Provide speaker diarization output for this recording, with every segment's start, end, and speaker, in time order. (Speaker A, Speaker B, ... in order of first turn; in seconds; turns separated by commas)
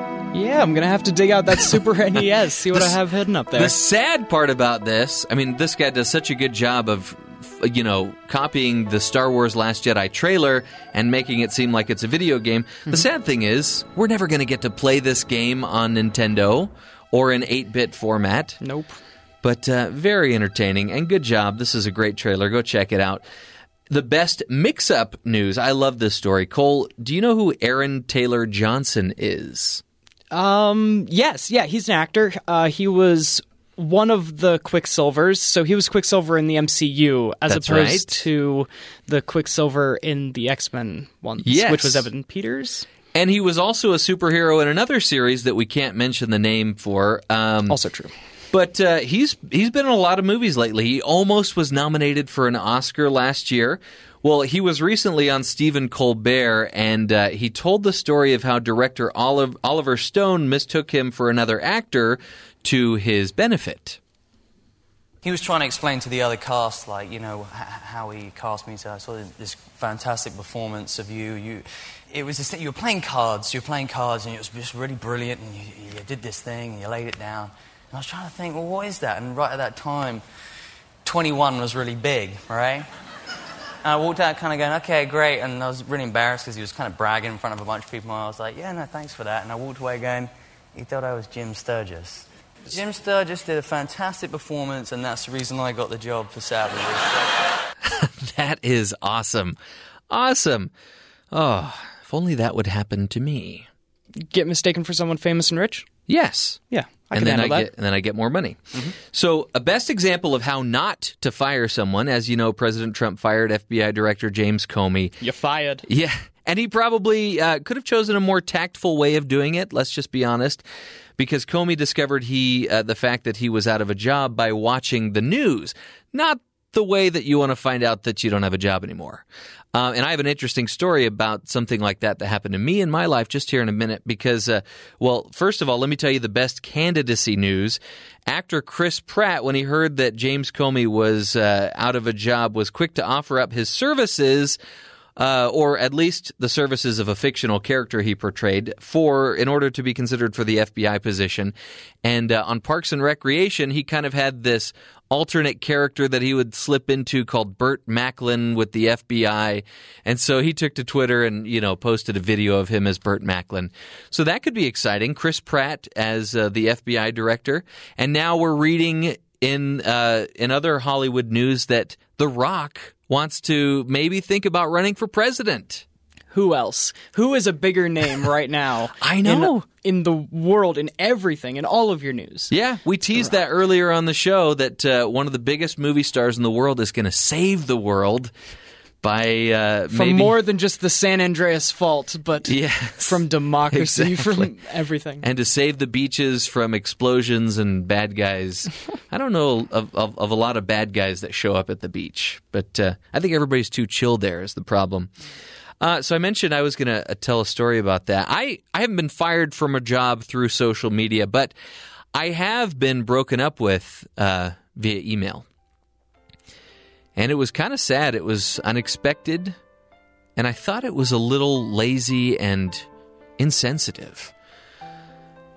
Speaker A: 0.3-3.8, Speaker B: 3.5-18.6, Speaker A: 18.6-19.0, Speaker B: 19.4-23.2, Speaker B: 23.9-29.8, Speaker A: 30.3-42.9, Speaker B: 37.5-38.3, Speaker B: 41.4-42.1, Speaker B: 43.1-47.8, Speaker A: 47.7-48.1, Speaker B: 48.5-64.0, Speaker C: 65.2-80.2, Speaker C: 81.0-82.9, Speaker C: 83.8-97.2, Speaker B: 97.9-99.5, Speaker B: 100.1-100.7, Speaker B: 101.3-103.7, Speaker A: 104.3-105.9, Speaker B: 106.1-115.2, Speaker A: 106.7-107.7, Speaker A: 115.2-115.8, Speaker B: 115.8-120.6, Speaker B: 121.2-144.6, Speaker B: 145.2-175.8, Speaker A: 176.3-182.5, Speaker B: 179.0-179.6, Speaker B: 182.5-188.3, Speaker B: 189.0-190.3, Speaker A: 189.9-195.2, Speaker B: 192.4-194.5, Speaker B: 195.2-205.1, Speaker B: 205.8-211.5, Speaker B: 212.1-215.4, Speaker B: 217.2-219.6, Speaker B: 220.4-222.8, Speaker B: 223.4-224.3